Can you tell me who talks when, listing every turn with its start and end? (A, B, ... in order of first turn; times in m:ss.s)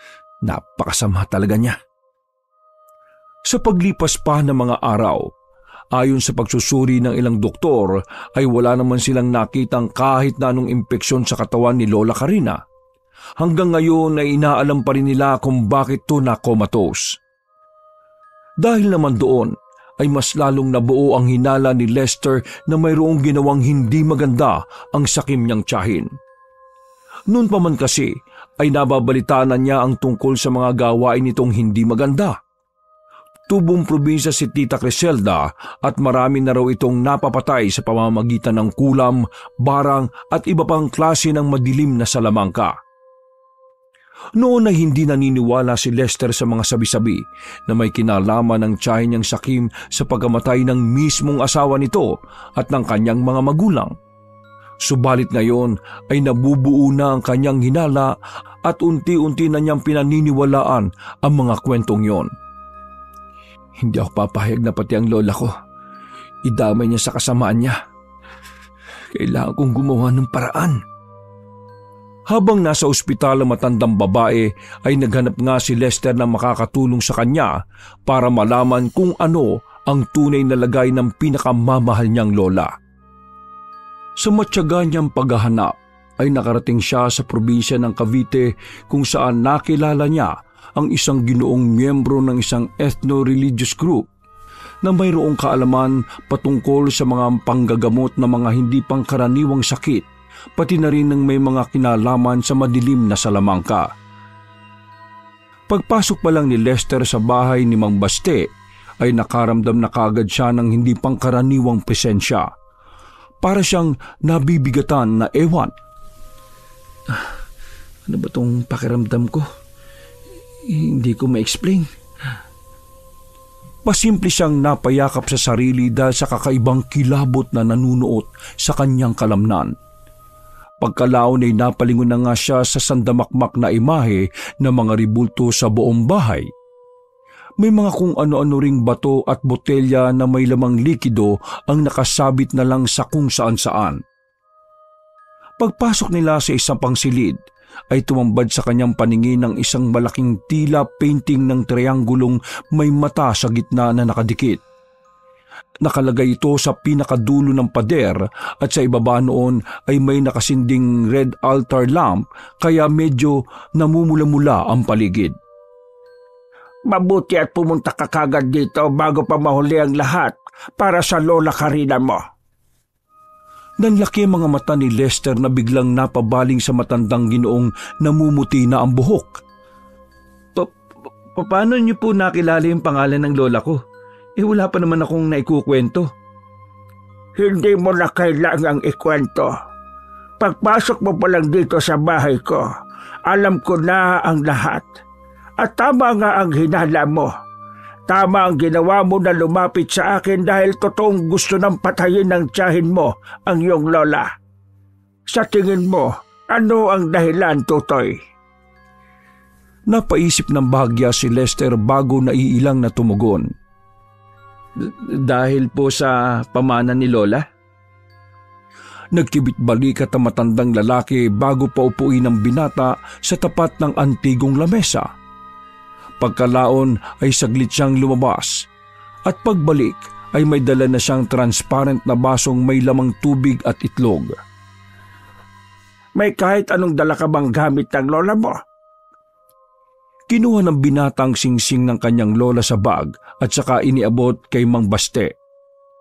0:00.5-0:01.7 A
0:00.6-0:01.7 B
0:03.5-0:05.3 B
0:06.0-0:12.6 B
0:13.4-0:17.2 B
0:18.6-0:26.1 B
0:27.3-0:32.4 B
0:33.5-0:42.8 B
0:44.4-0:53.9 B
0:54.8-1:02.3 B
1:03.8-1:05.5 B
1:06.4-1:07.8 B
1:09.2-1:10.8 B
1:12.3-1:17.5 B
1:18.1-1:22.7 B
1:24.2-1:34.1 B
1:34.8-1:40.1 B
1:40.6-1:43.9 B
1:45.7-1:48.5 B
1:49.0-1:52.5 B
1:53.4-1:55.7 B
1:58.1-1:59.4 A
2:01.1-2:01.8 B
2:01.2-2:01.7 A
2:03.9-2:09.7 B
2:10.8-2:16.5 B
2:17.6-2:24.0 B
2:25.6-2:27.4 B
2:27.9-2:34.6 B
2:35.8-2:45.3 B
2:46.9-2:52.2 C
2:53.8-2:59.4 B
3:01.4-3:03.8 A
3:04.4-3:06.1 A
3:07.4-3:09.5 C
3:10.4-3:12.7 C
3:13.3-3:14.9 C
3:15.6-3:17.3 C
3:18.1-3:24.3 C
3:25.3-3:28.2 C
3:29.9-3:33.5 B
3:34.8-3:37.4 A
3:39.1-3:45.1 B
3:46.2-3:48.7 B
3:49.3-3:54.3 B
3:56.2-3:58.6 C
4:00.3-4:05.3 B